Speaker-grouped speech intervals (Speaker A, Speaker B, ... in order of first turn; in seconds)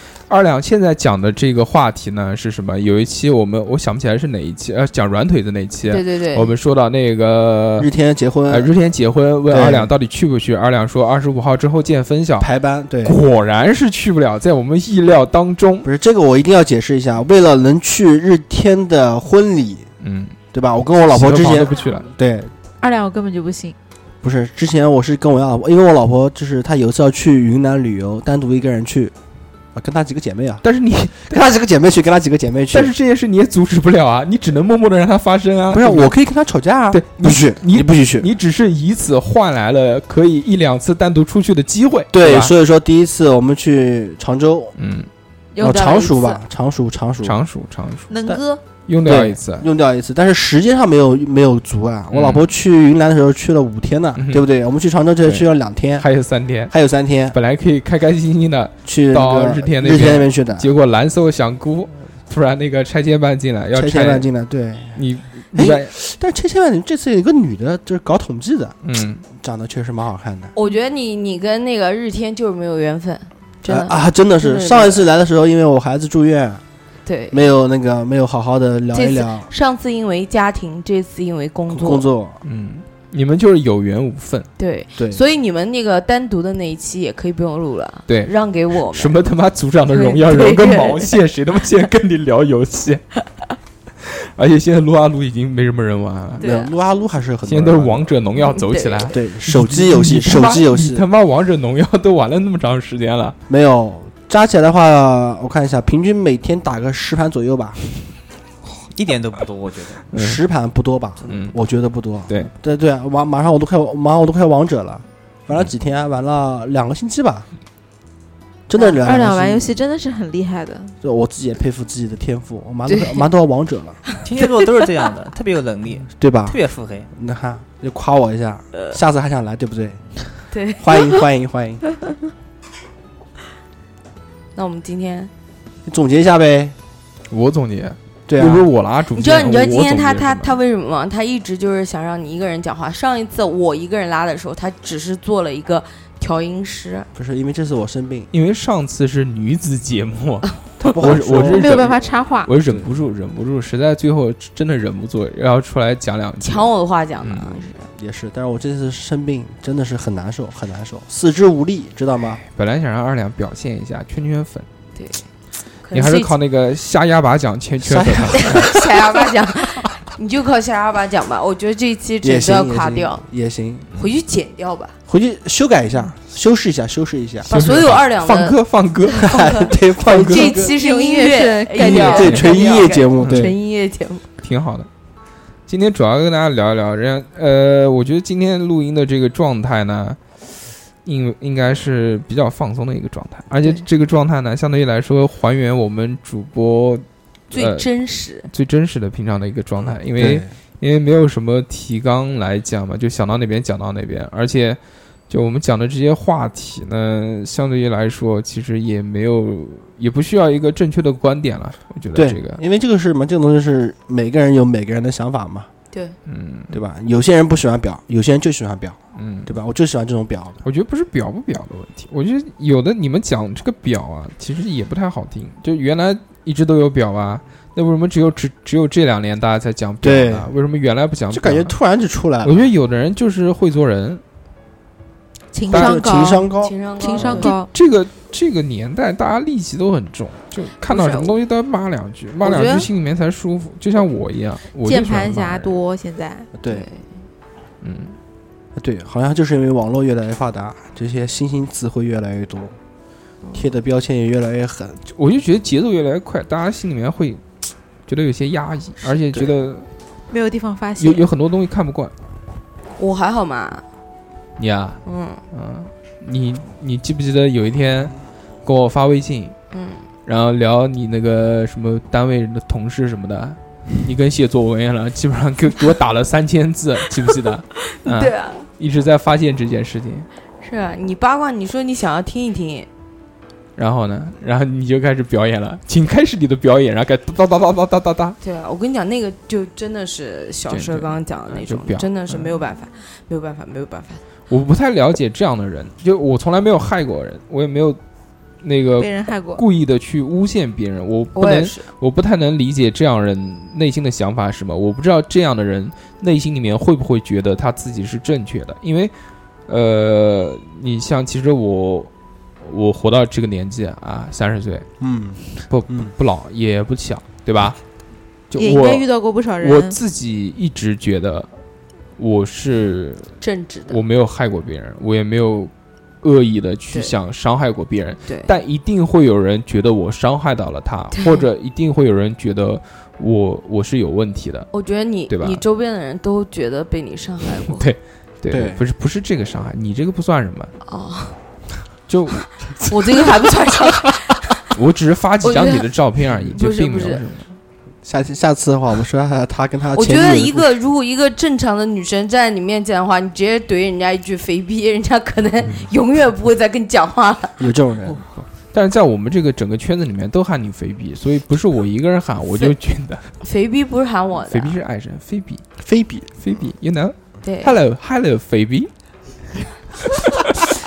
Speaker A: 0.3-7.9, 8.5-12.5, 13.0-15.9, 20.0-20.4, 21.0-22.1, 30.6-31.4, 32.7-36.1, 36.9-42.5, 44.8-45.1, 47.2-48.1, 48.9-49.7, 52.1-52.5, 54.1-54.5, 55.2-56.7, 57.3-64.3, 64.9-65.9, 68.8-69.2, 82.4-84.5, 88.9-93.1, 94.0-96.5, 97.4-103.4, 110.1-110.4, 111.3-111.5, 137.3-140.6, 148.3-156.7, 157.2-157.6, 162.4-164.7, 165.9-168.7, 177.5-179.3, 180.0-180.5, 182.1-182.4, 183.2-183.5, 184.4-184.9, 185.7-190.4, 191.0-197.9, 198.4-212.6, 216.3-216.8, 219.2-219.5, 220.6-231.7, 232.4-234.2, 235.7-236.2, 237.4-245.8, 247.8-248.2, 255.1-257.4, 258.1-259.9, 261.0-262.1, 264.6-269.5, 270.2-280.3, 283.8-288.4, 290.7-292.6, 294.5-298.0, 298.6-309.1, 309.7-314.9, 315.6-317.8, 318.5-321.5, 322.2-323.4, 323.9-325.7, 326.2-334.7, 335.3-335.6, 337.7-340.7, 342.1-342.5, 344.7-347.5, 358.1-363.3, 364.5-365.6, 366.4-368.9
Speaker B: 5.9-6.5, 70.5-75.1, 77.0-77.5, 78.9-82.1, 84.6-89.2, 89.9-91.2, 98.5-99.2, 122.9-123.2, 124.2-124.7, 130.5-131.2, 134.5-135.3, 139.1-147.1, 156.4-157.9, 164.9-165.3, 165.8-166.3, 168.4-173.2, 173.9-174.9, 177.5-178.6, 179.1-184.3, 197.5-198.5, 236.6-237.6, 240.9-241.3, 246.7-247.0, 263.0-263.8, 265.1-265.4, 269.7-270.0, 277.9-278.6, 280.6-282.9, 288.4-294.2, 301.3-301.9, 323.4-324.0, 331.1-331.5, 334.7-337.9, 340.8-341.4, 342.9-344.4, 345.4-347.2, 349.9-357.6, 363.4-364.8, 367.4-367.8
Speaker C: 7.8-8.7, 9.5-9.9, 12.4-13.2, 15.8-19.9, 20.5-22.5, 24.2-29.1, 29.7-30.6, 31.3-32.9, 35.7-38.3, 42.1-44.7, 45.6-47.4, 49.0-56.1, 56.7-57.4, 58.8-60.7, 63.7-65.0, 65.5-68.8, 69.3-70.5, 73.6-76.6, 77.3-79.5, 81.7-82.4, 96.4-98.1, 99.1-101.0, 103.5-107.8, 110.1-117.5, 118.7-119.7, 121.0-124.0, 126.2-126.6, 127.1-130.0, 130.8-131.8, 135.8-136.7, 138.3-138.7, 147.1-148.3, 150.8-152.0, 152.6-152.9, 157.9-162.4, 167.8-168.8, 172.2-173.9, 175.1-177.5, 179.2-180.7, 181.8-183.6, 200.2-200.5, 212.1-215.7, 216.7-220.6, 230.0-230.5, 231.3-232.7, 235.7-237.5, 246.6-246.9, 248.8-252.8, 253.5-255.0, 315.0-316.1, 338.5-338.8, 348.0-350.7, 357.6-358.2, 365.8-366.3
Speaker D: 22.8-23.7, 45.5-46.4, 48.1-48.6, 96.4-96.7, 119.0-120.9, 151.3-152.5, 180.6-182.5, 235.5-237.7, 242.4-242.9, 244.8-246.5, 260.3-261.3, 299.0-299.6, 318.5-320.0
Speaker E: 108.9-110.0, 124.2-127.1